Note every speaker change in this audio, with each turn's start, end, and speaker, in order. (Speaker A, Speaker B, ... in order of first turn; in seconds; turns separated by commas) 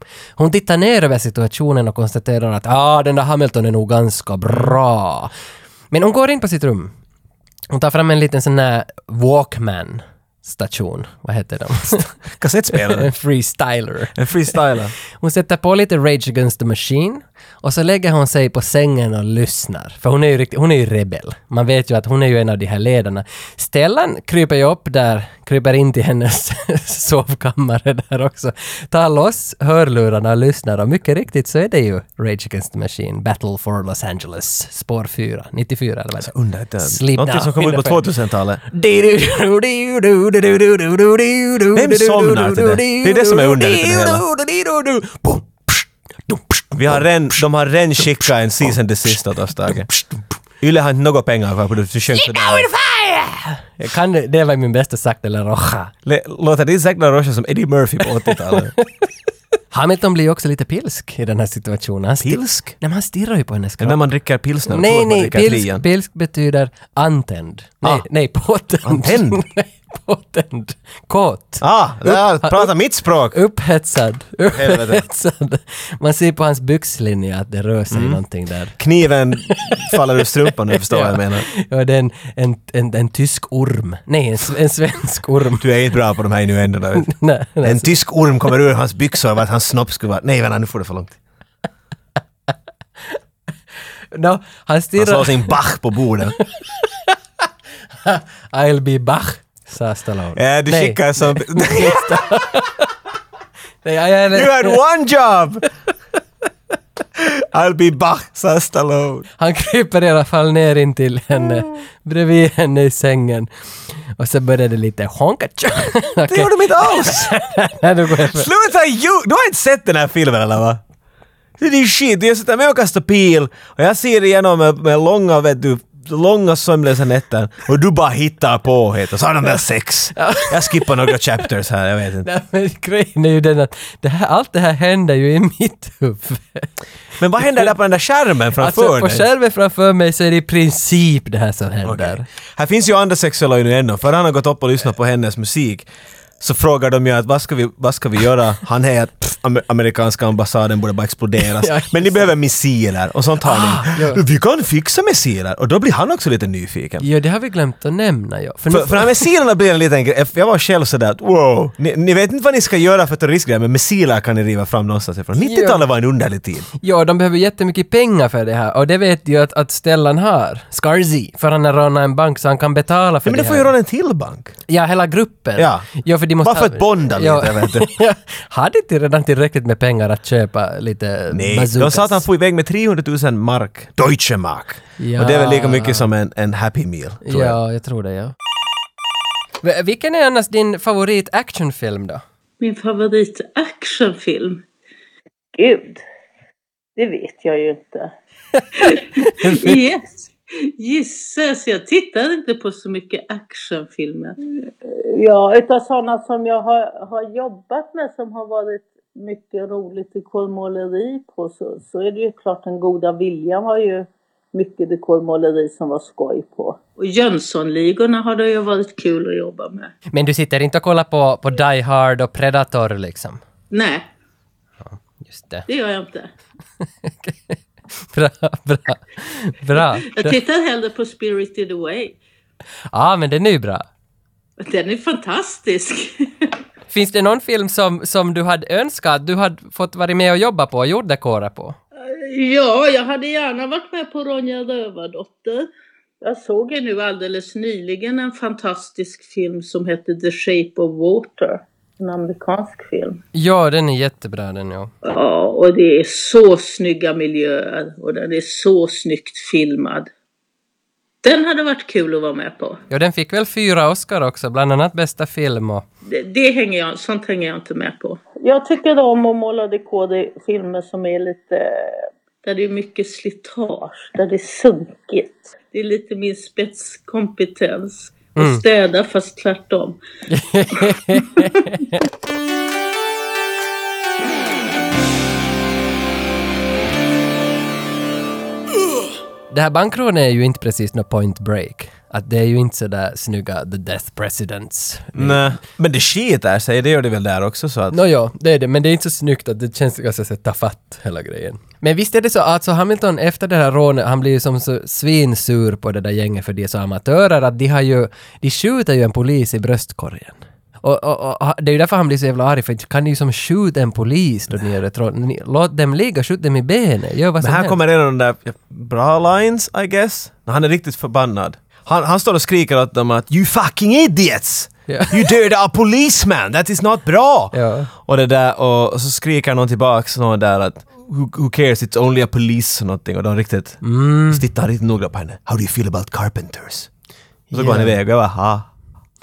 Speaker A: 0.4-5.3, Speaker B: 4.5-4.8, Speaker A: 5.9-6.9, Speaker A: 7.7-12.1, Speaker B: 12.4-13.1, Speaker A: 12.7-14.5, Speaker B: 14.1-14.9, Speaker A: 15.2-38.1, Speaker B: 36.2-38.6, Speaker A: 38.6-47.1, Speaker B: 41.7-44.2, Speaker B: 46.7-49.9, Speaker B: 50.6-52.7, Speaker A: 52.1-55.9, Speaker B: 56.0-58.7, Speaker A: 58.3-58.8, Speaker A: 59.7-64.0, Speaker B: 62.2-62.7, Speaker B: 63.8-65.8, Speaker A: 64.7-72.7, Speaker B: 68.8-69.4, Speaker B: 71.6-73.4, Speaker A: 73.3-78.8, Speaker B: 74.5-75.0, Speaker B: 77.9-78.2, Speaker B: 78.8-81.5, Speaker A: 79.5-80.0, Speaker A: 80.7-85.7, Speaker B: 85.6-87.1, Speaker A: 87.0-87.9, Speaker B: 87.6-91.2, Speaker A: 94.1-95.5, Speaker B: 95.0-96.4, Speaker A: 96.4-97.2, Speaker A: 98.0-102.8, Speaker B: 100.3-102.2, Speaker A: 103.8-104.8, Speaker B: 104.3-105.7, Speaker B: 107.2-109.3, Speaker A: 109.4-118.5, Speaker B: 116.2-117.3, Speaker B: 118.1-120.8, Speaker B: 121.6-132.3, Speaker A: 130.2-131.2, Speaker A: 132.2-136.7, Speaker B: 137.2-139.3, Speaker A: 137.4-137.7, Speaker A: 138.6-142.2, Speaker B: 141.8-145.8, Speaker B: 146.4-157.1, Speaker A: 151.4-152.3, Speaker A: 153.4-154.2, Speaker A: 157.0-159.3, Speaker B: 158.7-166.7, Speaker A: 165.4-165.8, Speaker A: 166.8-173.7, Speaker B: 173.2-174.5, Speaker A: 174.7-182.2, Speaker B: 175.6-175.9, Speaker B: 176.4-177.9, Speaker B: 181.3-187.6, Speaker A: 185.0-186.1, Speaker A: 187.2-188.3, Speaker A: 189.6-192.2, Speaker C: 192.6-194.6, Speaker C: 195.5-196.0, Speaker C: 196.9-198.1, Speaker A: 198.5-199.8, Speaker C: 198.8-219.9, Speaker A: 220.1-223.4, Speaker C: 223.7-224.1, Speaker A: 224.8-225.7, Speaker C: 225.7-226.3, Speaker A: 227.0-230.4, Speaker C: 230.1-232.2, Speaker A: 232.9-233.9, Speaker C: 234.6-236.5, Speaker A: 236.9-241.8, Speaker C: 242.0-245.7, Speaker C: 246.2-253.2, Speaker A: 253.3-254.9, Speaker C: 255.0-260.1, Speaker C: 261.2-262.8, Speaker A: 262.9-265.8, Speaker C: 266.1-280.0, Speaker A: 278.4-278.6, Speaker A: 280.3-282.0, Speaker C: 281.1-281.6, Speaker A: 289.5-295.4, Speaker B: 295.1-298.0, Speaker A: 297.9-317.8, Speaker B: 317.4-336.9, Speaker A: 324.9-325.3, Speaker A: 327.5-327.9, Speaker A: 333.8-334.4, Speaker A: 337.5-337.9, Speaker B: 337.5-338.7